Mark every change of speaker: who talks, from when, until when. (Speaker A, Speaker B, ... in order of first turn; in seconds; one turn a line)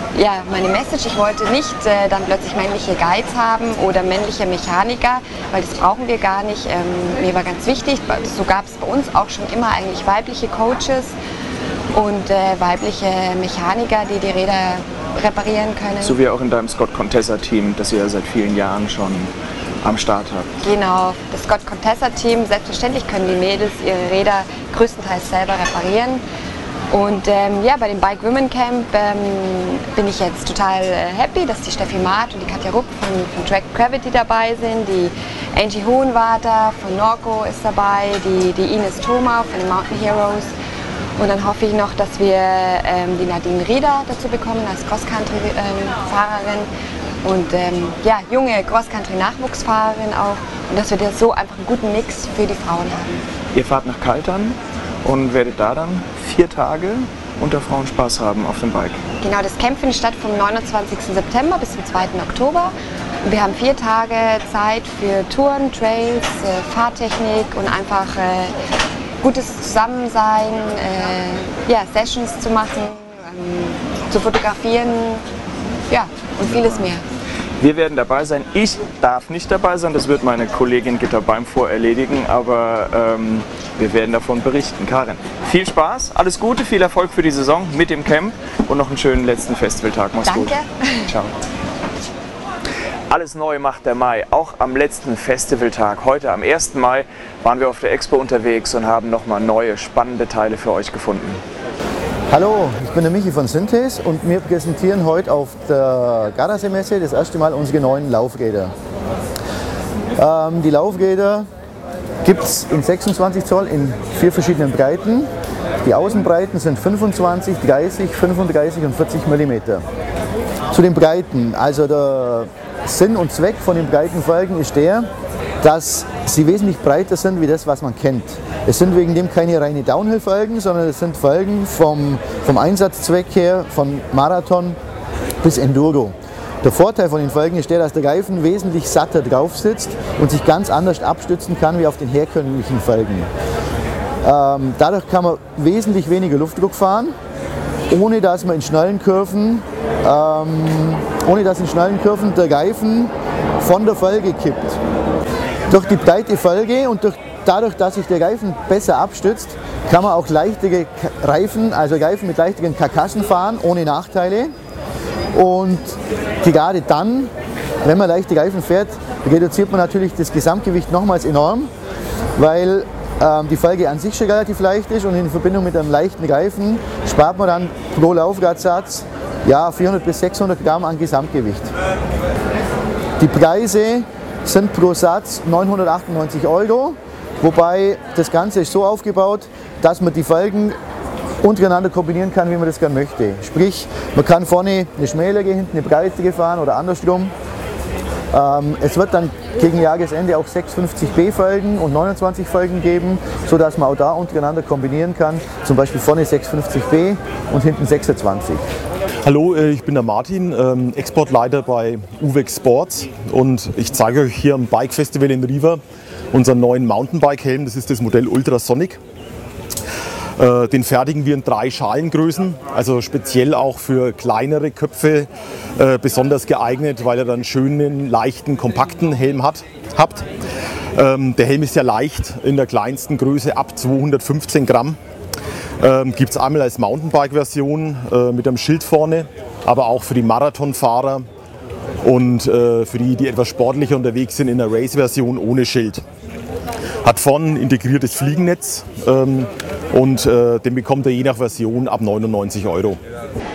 Speaker A: 0.1-11.1
Speaker A: 11.9-16.2
Speaker B: 16.0-20.5
Speaker A: 20.6-26.2
Speaker A: 26.9-40.5
Speaker A: 41.2-46.7
Speaker A: 47.2-53.2
Speaker B: 53.5-59.0
Speaker A: 59.2-62.7
Speaker A: 63.2-68.5
Speaker A: 69.2-75.2
Speaker A: 75.9-77.0
Speaker B: 76.6-76.9
Speaker B: 77.6-91.3
Speaker A: 90.2-91.1
Speaker B: 93.1-101.4
Speaker C: 102.3-108.7
Speaker C: 110.2-111.5
Speaker C: 112.2-115.3
Speaker C: 115.8-119.8
Speaker C: 120.7-125.1
Speaker C: 125.6-134.8
Speaker C: 135.4-143.3
Speaker C: 144.2-147.2
Speaker C: 147.9-154.8
Speaker C: 155.7-164.5
Speaker C: 165.3-167.3
Speaker C: 167.8-171.7
Speaker C: 172.4-181.7
Speaker C: 183.2-190.8
Speaker C: 191.4-197.3
Speaker C: 198.3-208.6
Speaker D: 209.2-215.8
Speaker D: 216.3-219.0
Speaker D: 220.4-230.3
Speaker D: 231.0-235.0
Speaker D: 235.8-241.3
Speaker D: 242.0-246.0
Speaker D: 247.1-253.0